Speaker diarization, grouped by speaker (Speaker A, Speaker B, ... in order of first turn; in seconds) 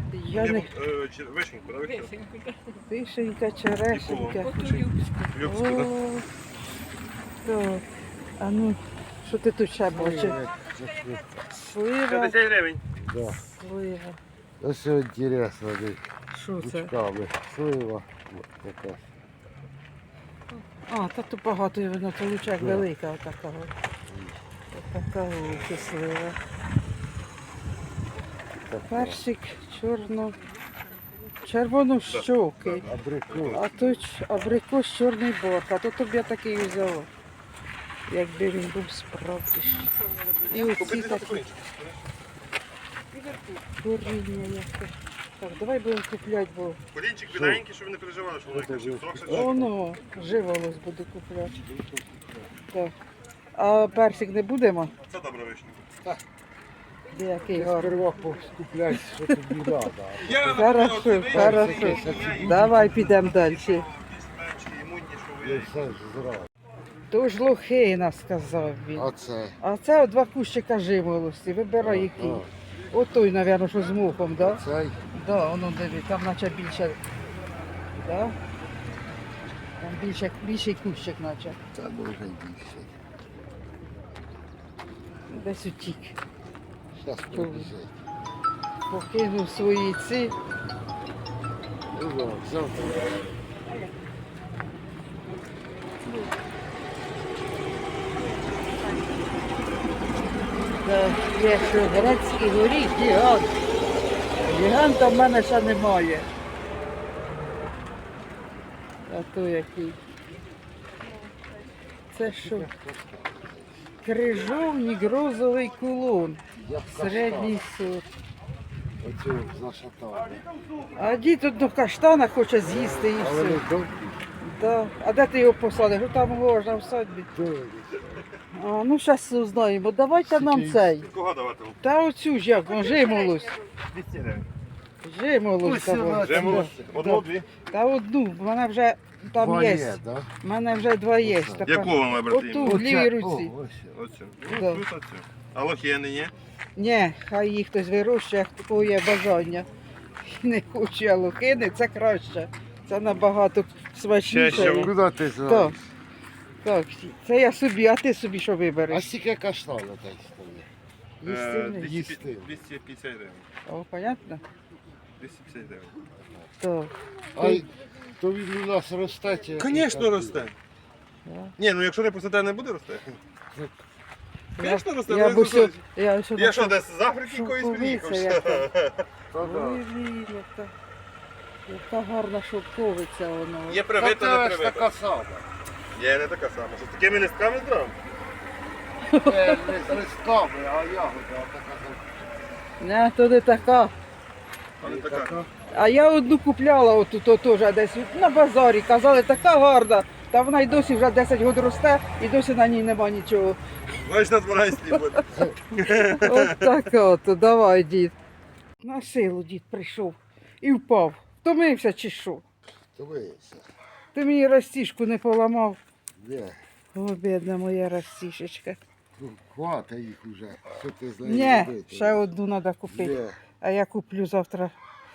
Speaker A: 0.1-0.7, 2.8-6.3, 7.4-7.8, 8.4-10.4, 11.4-12.4, 13.3-14.2, 16.3-16.9, 20.8-23.7, 24.7-26.4, 28.9-30.4, 31.4-32.9, 33.5-37.1, 38.1-39.9, 40.5-41.5, 43.1-46.8, 49.3-51.6, 53.5-54.9, 57.1-58.0, 59.2-59.8, 60.5-63.9, 67.1-69.1, 69.6-77.0, 77.9-78.3, 79.8-81.6, 85.3-86.2, 87.3-87.7, 88.9-90.3, 100.8-103.5, 104.4-106.3, 109.1-110.0, 112.1-112.7, 114.0-118.0, 120.9-123.6, 124.4-127.3, 128.5-131.1, 131.8-133.6, 135.0-143.5, 144.4-144.8, 146.8-149.7, 150.2-155.8, 156.6-159.1, 161.2-162.0, 163.7-164.4, 166.6-166.9, 171.2-171.5, 174.6-178.7, 179.4-180.7, 181.7-183.8, 189.0-190.0, 192.8-193.9, 195.7-203.6, 206.1-208.1, 208.8-212.4, 214.1-215.8, 216.9-218.8, 221.2-224.8
Speaker B: 0.3-2.3, 3.9-5.9, 12.1-12.8, 25.5-25.9, 32.1-33.7, 40.2-42.0, 46.9-49.6, 55.0-55.9, 60.2-65.8, 131.0-131.8, 133.8-134.5, 136.2-137.5, 141.7-142.8, 143.9-146.3, 154.2-154.9, 161.2-163.4, 165.2-166.0, 169.6-170.5, 171.6-173.2, 174.6-175.8, 176.3-179.0, 183.7-184.9, 185.9-188.0, 194.8-195.4, 203.9-206.8
Speaker C: 9.9-11.4, 12.9-13.4, 14.6-16.0, 16.6-19.1, 22.6-22.9, 24.1-24.4, 28.6-29.2, 32.8-33.7, 47.3-47.6, 48.5-49.7, 51.6-52.5, 57.5-60.6, 61.3-63.1, 65.4-66.5, 68.9-69.6, 71.8-72.5, 74.4-75.0, 81.7-82.9, 87.0-87.9, 91.9-93.1, 112.2-113.8, 116.5-117.6, 119.0-120.5, 122.6-124.2, 127.3-128.2, 130.2-131.0, 135.6-136.8, 139.3-140.3, 141.2-141.9, 142.6-143.9, 154.4-155.8, 158.9-160.7, 161.7-162.6, 167.3-170.5, 173.5-173.8, 179.3-179.8, 184.0-185.5, 189.2-192.4, 194.8-195.5, 212.9-213.7, 216.2-216.6, 219.2-222.3, 222.9-223.4